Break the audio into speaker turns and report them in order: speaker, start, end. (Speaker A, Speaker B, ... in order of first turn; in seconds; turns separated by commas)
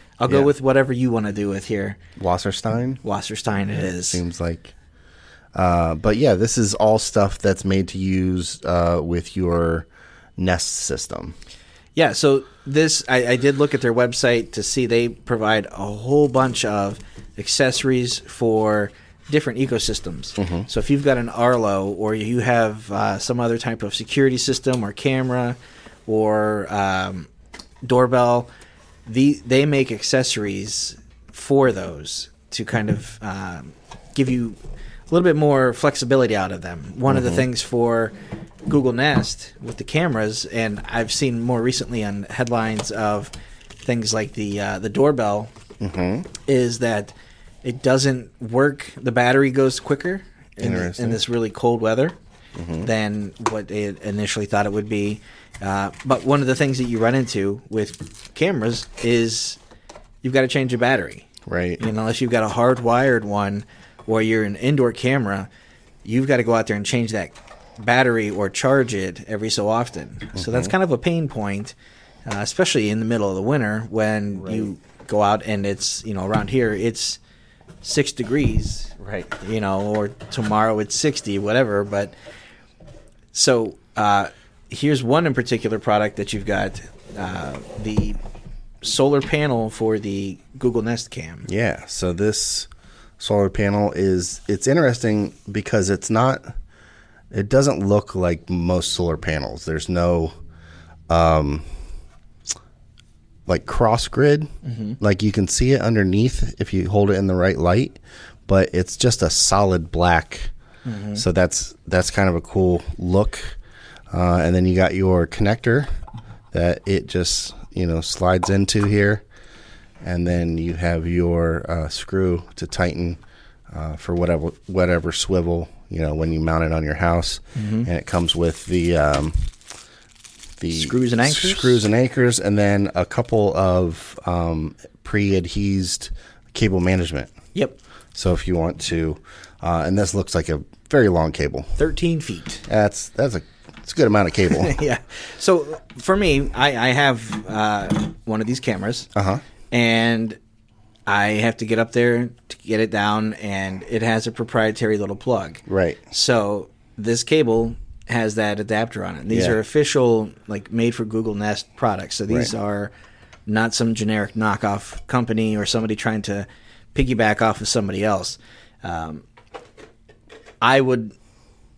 Speaker A: 0.2-2.0, Speaker B: 0.3-0.5, Speaker B: 2.2-3.0, Speaker A: 3.0-4.2, Speaker B: 3.8-4.7, Speaker B: 5.5-11.3, Speaker A: 11.9-27.3, Speaker B: 20.4-20.7, Speaker A: 27.8-28.5, Speaker A: 29.1-34.6, Speaker A: 35.1-38.1, Speaker B: 37.0-37.5, Speaker A: 38.6-43.3, Speaker A: 43.8-45.5, Speaker B: 45.8-46.3, Speaker A: 46.4-52.1, Speaker B: 50.6-51.2, Speaker B: 52.5-52.9, Speaker A: 52.8-59.6, Speaker A: 60.2-61.3, Speaker B: 61.5-61.8, Speaker A: 61.8-65.5, Speaker A: 66.0-71.7, Speaker B: 70.3-70.7, Speaker A: 72.2-77.2, Speaker B: 74.3-74.7, Speaker A: 77.8-82.1, Speaker B: 79.0-79.3, Speaker A: 83.3-88.2, Speaker A: 88.8-91.5, Speaker B: 91.5-96.5, Speaker B: 97.3-100.3, Speaker B: 101.1-101.6, Speaker B: 103.5-104.5, Speaker A: 104.6-105.0, Speaker B: 105.0-110.5, Speaker A: 110.8-111.2, Speaker B: 111.2-113.6, Speaker B: 114.1-115.9, Speaker B: 116.5-119.2, Speaker B: 120.0-123.2, Speaker B: 123.7-129.5, Speaker A: 127.5-127.9, Speaker B: 130.6-137.3, Speaker A: 130.7-131.8, Speaker B: 138.1-141.7, Speaker A: 141.8-142.6, Speaker B: 142.7-144.7, Speaker A: 144.5-149.1, Speaker B: 149.1-149.4, Speaker A: 149.7-150.4, Speaker A: 151.1-162.9, Speaker B: 155.7-156.0, Speaker B: 159.3-159.6, Speaker A: 163.5-169.2, Speaker A: 170.6-171.1